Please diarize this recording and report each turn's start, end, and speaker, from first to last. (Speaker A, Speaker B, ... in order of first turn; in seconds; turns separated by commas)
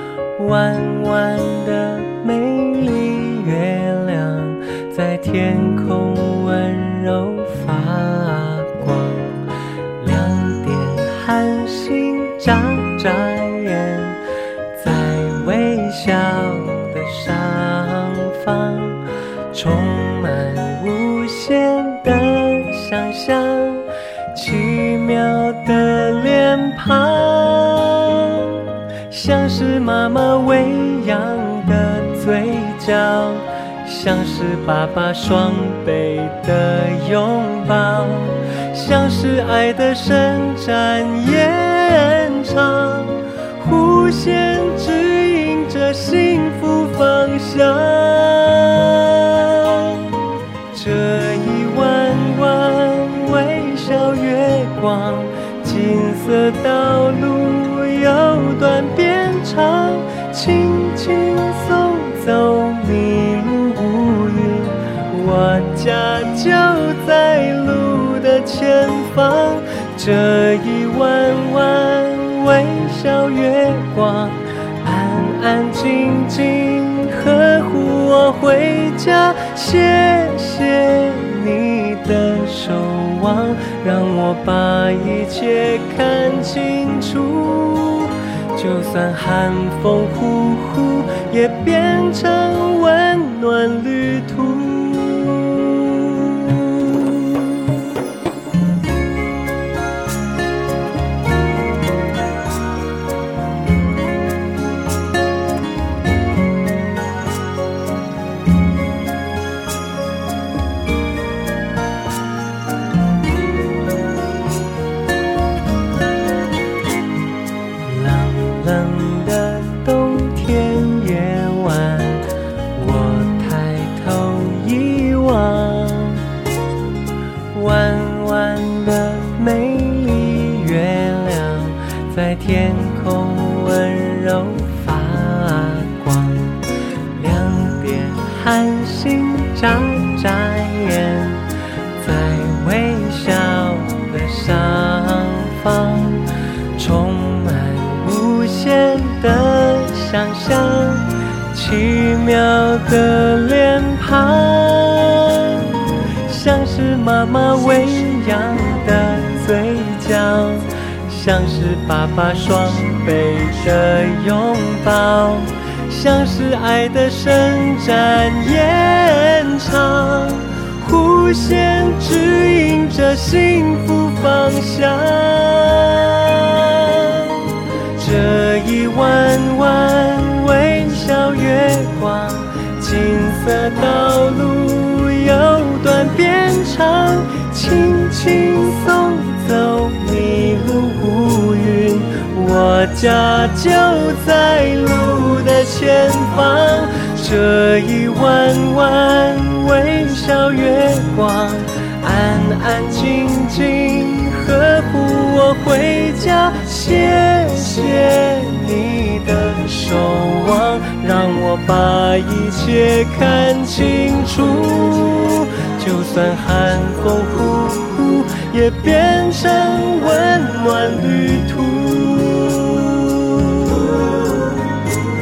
Speaker A: 0.4-9.4, Speaker A: 10.0-14.2, Speaker A: 14.7-28.5, Speaker A: 29.1-50.0, Speaker A: 50.7-96.0, Speaker A: 117.8-122.2, Speaker A: 122.7-126.2, Speaker A: 127.5-136.6, Speaker A: 137.2-141.4, Speaker A: 142.0-146.2, Speaker A: 146.8-155.7, Speaker A: 156.3-224.7